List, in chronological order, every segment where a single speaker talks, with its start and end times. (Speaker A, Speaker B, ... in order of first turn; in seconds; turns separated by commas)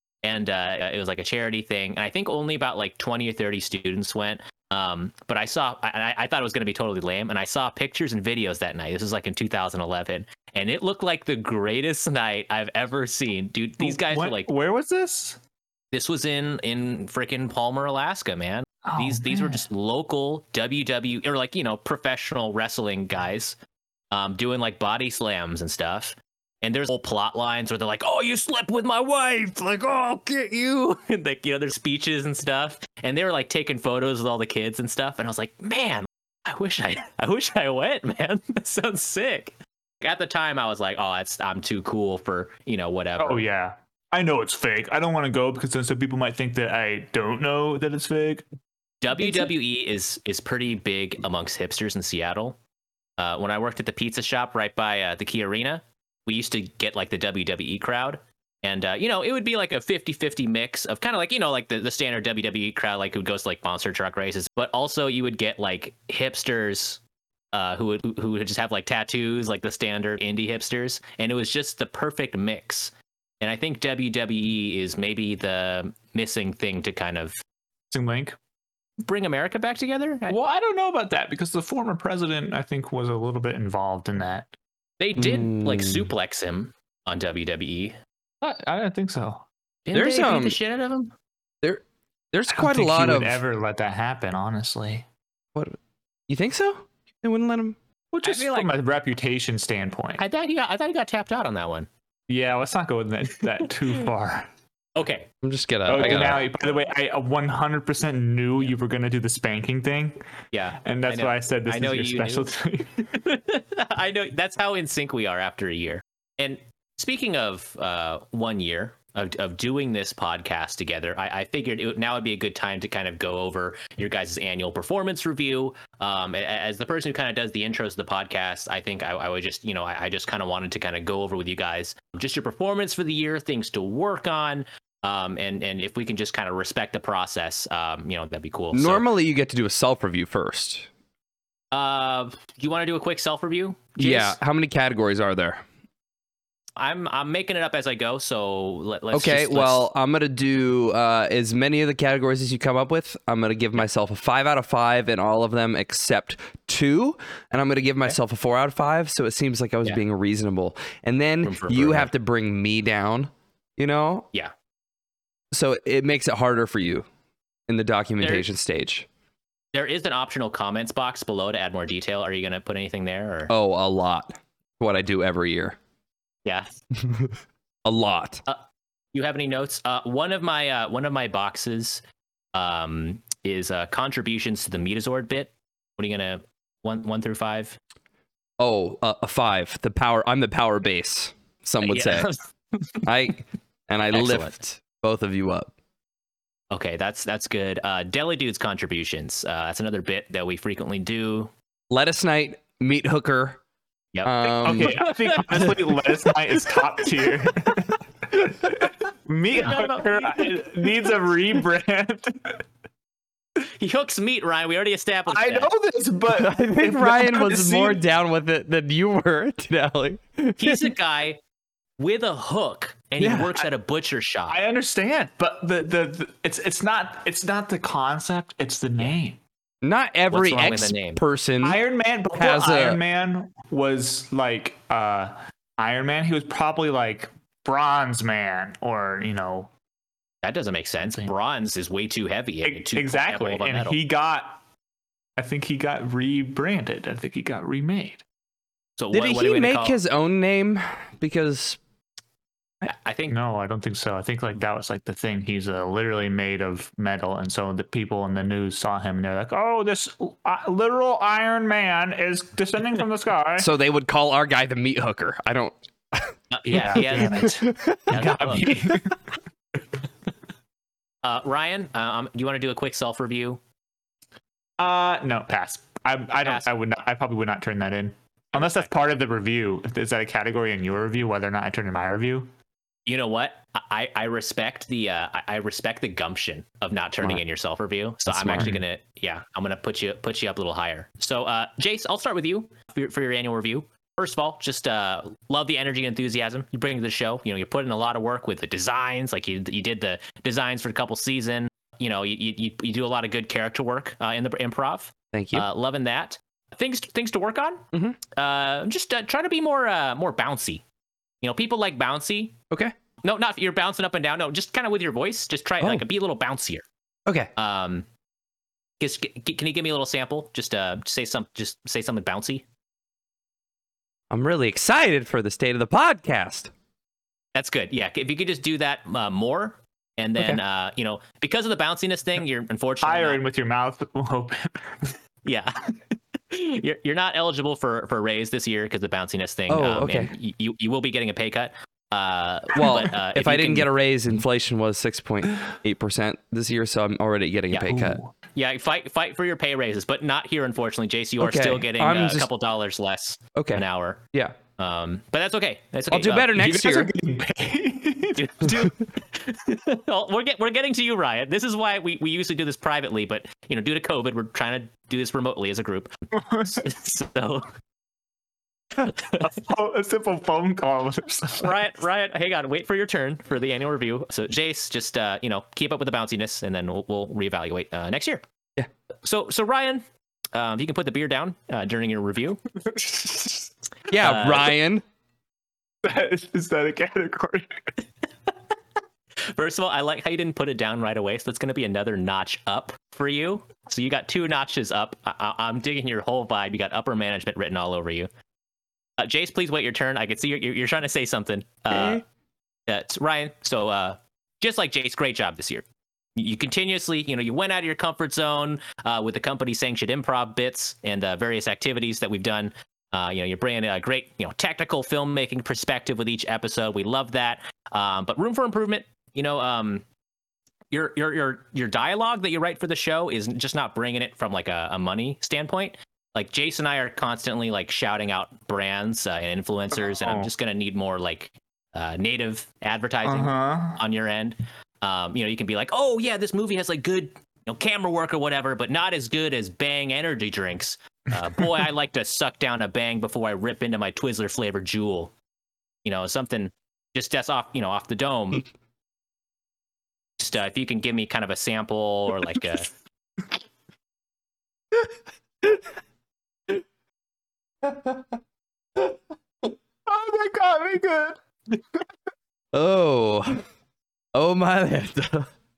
Speaker A: 0.2-14.5, Speaker B: 13.8-15.4, Speaker A: 15.9-23.6, Speaker B: 18.8-19.6, Speaker A: 24.1-43.4, Speaker B: 43.2-48.5, Speaker A: 49.0-52.6, Speaker A: 53.2-67.0, Speaker A: 67.5-77.4, Speaker B: 77.9-78.4, Speaker A: 79.0-80.4, Speaker B: 80.3-84.5, Speaker A: 85.0-88.0, Speaker C: 85.2-86.1, Speaker B: 88.4-89.5, Speaker A: 89.9-91.1, Speaker C: 89.9-90.6, Speaker C: 92.3-93.4, Speaker B: 92.5-95.1, Speaker C: 96.3-97.8, Speaker B: 98.1-100.2, Speaker A: 98.2-98.7, Speaker A: 100.2-101.9, Speaker B: 102.3-104.5, Speaker A: 105.0-105.3, Speaker C: 105.4-106.5, Speaker B: 105.9-110.2, Speaker A: 106.0-106.4, Speaker A: 110.5-112.5, Speaker B: 110.8-113.1, Speaker A: 113.1-139.1, Speaker C: 138.7-140.9, Speaker A: 141.7-144.4, Speaker C: 144.0-145.6, Speaker A: 146.8-149.8, Speaker C: 149.1-164.3, Speaker A: 161.4-162.1, Speaker C: 165.5-167.1, Speaker C: 167.7-169.1, Speaker A: 168.2-168.5, Speaker A: 169.7-173.5, Speaker C: 173.5-175.8, Speaker A: 176.4-176.8, Speaker C: 177.0-177.3, Speaker C: 177.9-178.4, Speaker A: 178.5-182.0, Speaker A: 182.5-187.8, Speaker C: 188.6-192.3, Speaker A: 191.8-193.1, Speaker C: 193.0-195.7, Speaker A: 194.1-194.5, Speaker A: 196.7-201.5, Speaker C: 201.9-203.6, Speaker A: 204.1-206.1, Speaker C: 204.2-205.8, Speaker B: 204.6-212.6, Speaker A: 209.6-210.6, Speaker A: 213.6-215.7, Speaker B: 215.3-218.1, Speaker C: 216.3-220.9, Speaker A: 220.6-221.4, Speaker A: 222.0-224.6, Speaker C: 223.2-223.6, Speaker B: 224.5-229.4, Speaker C: 229.8-231.8, Speaker A: 230.3-231.2, Speaker B: 231.6-239.7, Speaker C: 232.3-233.0, Speaker A: 240.4-244.0, Speaker B: 241.1-241.3, Speaker B: 242.6-244.6, Speaker B: 245.4-248.2, Speaker A: 249.0-250.0, Speaker C: 249.1-251.8, Speaker A: 252.8-253.4, Speaker B: 253.3-263.7, Speaker C: 263.6-266.3, Speaker A: 266.5-267.6, Speaker B: 266.7-269.1, Speaker C: 266.9-268.1, Speaker A: 268.1-268.8, Speaker A: 271.2-273.6, Speaker B: 274.8-282.5, Speaker A: 276.4-276.7, Speaker A: 278.6-278.9, Speaker A: 283.1-310.8, Speaker C: 288.3-288.8, Speaker C: 305.3-305.7, Speaker C: 307.9-308.2, Speaker A: 311.4-312.6, Speaker A: 313.2-316.9, Speaker A: 317.6-318.1, Speaker A: 319.0-322.6, Speaker C: 324.3-326.7, Speaker A: 327.6-333.4, Speaker B: 333.0-335.1, Speaker A: 335.4-335.9, Speaker A: 336.5-343.9, Speaker C: 339.7-340.3, Speaker C: 342.8-348.2, Speaker A: 347.7-354.2, Speaker B: 347.9-348.3, Speaker C: 351.4-352.5, Speaker C: 353.6-354.6, Speaker A: 354.8-356.6, Speaker C: 356.1-357.1, Speaker B: 356.5-359.0, Speaker A: 358.4-366.1, Speaker B: 366.3-366.9, Speaker A: 366.6-367.7, Speaker A: 369.0-369.4, Speaker B: 369.4-371.8, Speaker A: 371.6-378.4, Speaker A: 379.2-382.6, Speaker C: 384.1-385.0, Speaker A: 384.2-384.7, Speaker B: 386.0-387.9, Speaker A: 389.4-398.3, Speaker A: 399.2-402.2, Speaker C: 401.9-402.2, Speaker A: 402.9-405.9, Speaker A: 406.4-420.0, Speaker A: 420.9-445.3, Speaker B: 429.9-430.5, Speaker B: 433.2-434.0, Speaker A: 446.1-448.6, Speaker A: 450.4-452.9, Speaker C: 457.9-458.2, Speaker B: 460.1-462.1, Speaker C: 462.7-463.6, Speaker C: 464.4-465.5